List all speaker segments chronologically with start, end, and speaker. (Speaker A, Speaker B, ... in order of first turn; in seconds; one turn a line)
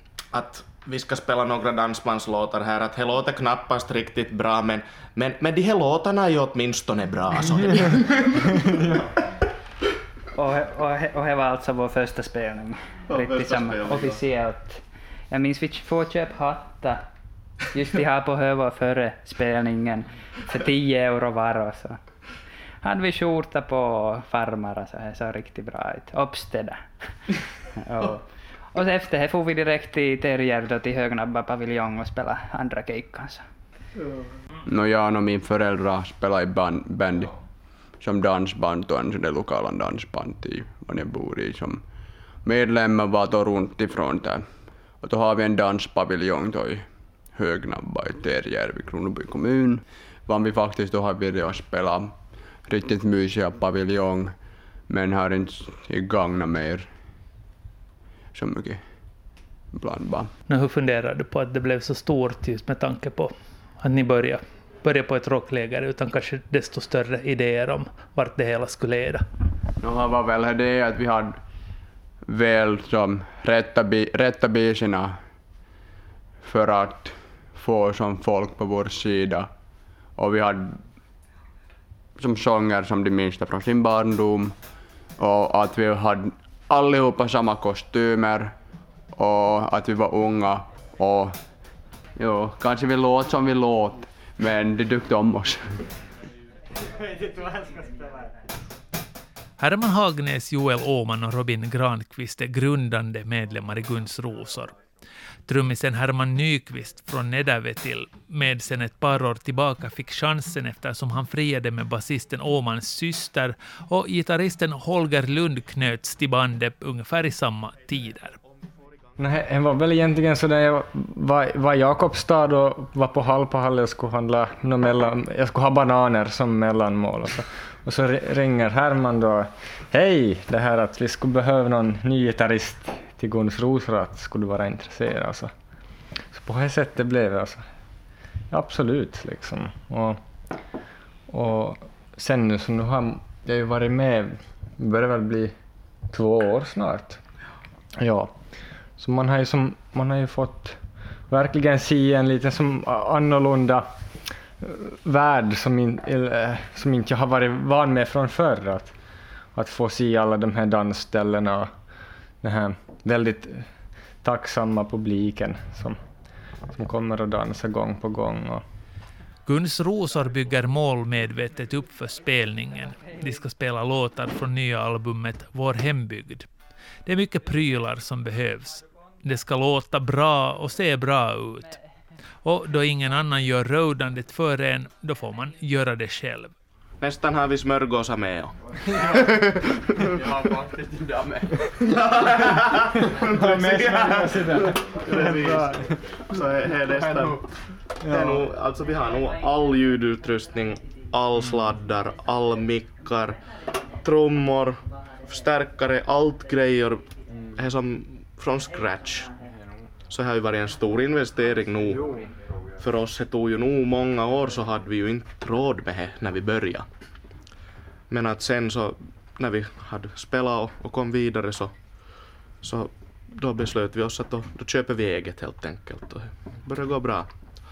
Speaker A: 0.3-8.6
Speaker B: 10.3-17.1
Speaker A: 13.1-14.2
Speaker B: 17.7-22.0
Speaker B: 22.8-33.4
Speaker C: 34.6-37.3
Speaker C: 37.9-41.8
Speaker C: 42.4-56.9
Speaker C: 58.3-58.9
Speaker C: 59.7-60.3
Speaker D: 60.5-69.2
Speaker C: 69.8-71.4
Speaker C: 72.2-75.2
Speaker C: 76.4-79.5
Speaker C: 80.1-80.9
Speaker C: 82.2-84.6
Speaker C: 85.2-88.5
Speaker C: 89.1-91.4
Speaker C: 92.2-95.9
Speaker D: 99.6-104.8
Speaker D: 105.5-118.4
Speaker E: 119.2-135.5
Speaker E: 136.2-137.6
Speaker E: 138.5-140.2
Speaker E: 141.3-145.5
Speaker E: 146.1-147.2
Speaker E: 148.0-168.6
Speaker D: 169.4-176.5
Speaker D: 177.0-181.8
Speaker D: 182.4-186.5
Speaker A: 187.0-190.3
Speaker C: 190.1-191.5
Speaker A: 191.8-203.4
Speaker E: 193.3-196.0
Speaker E: 198.0-198.3
Speaker A: 204.0-209.3
Speaker A: 210.1-212.2
Speaker A: 212.8-216.9
Speaker A: 218.1-221.7
Speaker A: 222.6-227.3